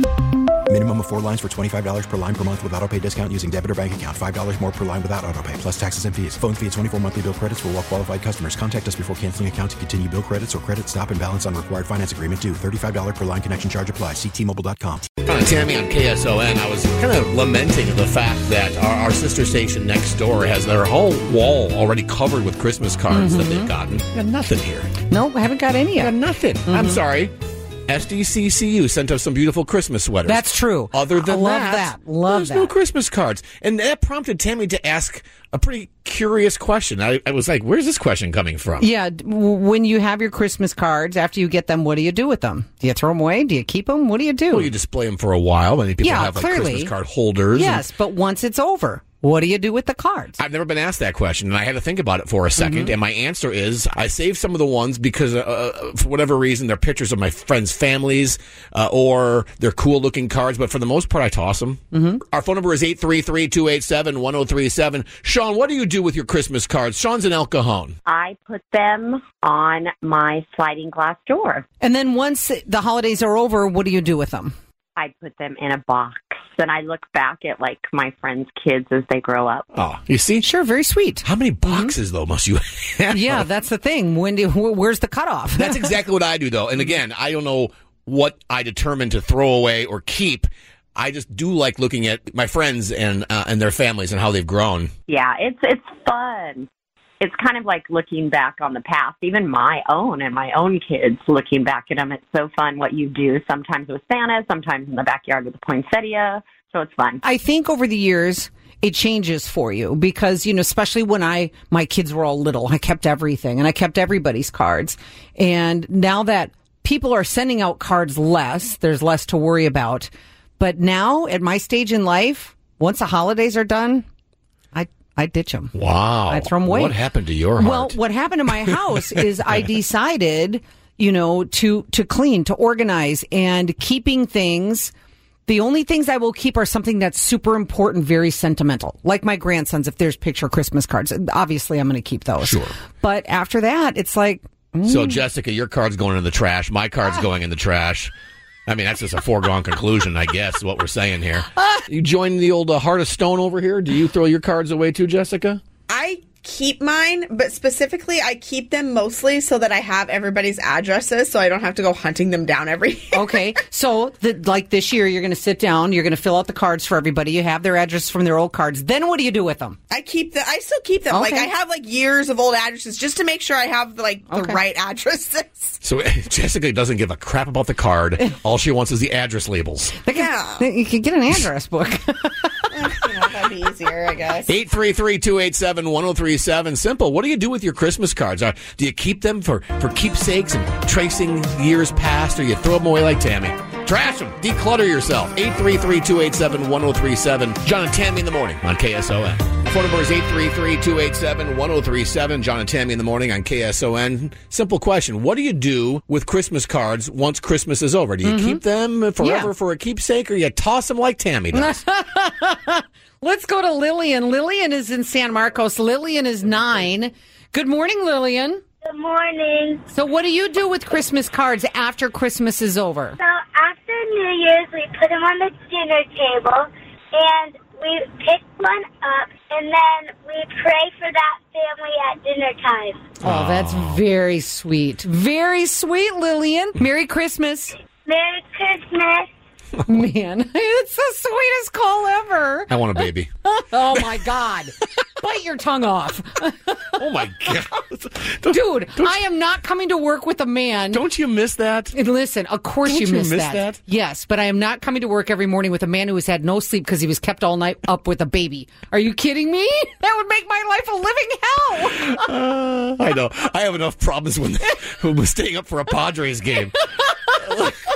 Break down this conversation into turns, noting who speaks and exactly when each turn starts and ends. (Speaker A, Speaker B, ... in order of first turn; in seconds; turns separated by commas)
Speaker A: 0.7-15.1, Speaker B: 15.2-24.9, Speaker C: 23.1-23.7, Speaker C: 25.1-26.1, Speaker B: 26.0-27.3, Speaker C: 26.6-27.0, Speaker B: 27.9-38.9, Speaker C: 30.2-32.7, Speaker C: 38.8-44.7, Speaker B: 44.5-47.8, Speaker C: 46.0-46.9, Speaker C: 47.5-50.4, Speaker B: 50.4-68.0, Speaker C: 52.6-52.9, Speaker C: 61.9-62.2, Speaker D: 68.0-71.6, Speaker C: 71.8-74.5, Speaker D: 75.0-79.7, Speaker B: 79.7-80.4, Speaker C: 80.4-81.9, Speaker B: 81.2-83.4, Speaker C: 83.1-86.0, Speaker B: 85.6-94.9, Speaker D: 95.1-96.7, Speaker D: 97.2-107.2, Speaker C: 107.2-124.0, Speaker C: 124.7-125.7, Speaker B: 125.7-128.0, Speaker C: 126.3-127.0, Speaker C: 127.5-134.9, Speaker C: 135.4-145.2, Speaker B: 142.4-142.7, Speaker B: 144.8-148.1, Speaker B: 148.7-155.6, Speaker E: 155.9-163.2, Speaker C: 163.1-169.8, Speaker E: 169.9-175.8, Speaker C: 171.1-171.5, Speaker C: 174.3-174.6, Speaker B: 175.8-180.0, Speaker C: 179.9-182.5, Speaker E: 180.1-180.6, Speaker E: 182.7-184.5, Speaker B: 184.4-211.8, Speaker C: 208.2-208.6, Speaker C: 209.2-209.5, Speaker C: 211.5-218.6, Speaker F: 218.8-219.9, Speaker C: 219.9-223.2, Speaker F: 223.2-233.1, Speaker B: 233.2-234.0, Speaker C: 233.2-237.7, Speaker F: 238.0-239.3, Speaker C: 239.8-247.1, Speaker B: 242.7-243.3, Speaker B: 247.0-249.2, Speaker C: 248.5-251.0, Speaker B: 250.9-251.9, Speaker C: 251.9-262.2, Speaker B: 252.8-253.8, Speaker B: 261.9-266.7, Speaker B: 267.4-267.7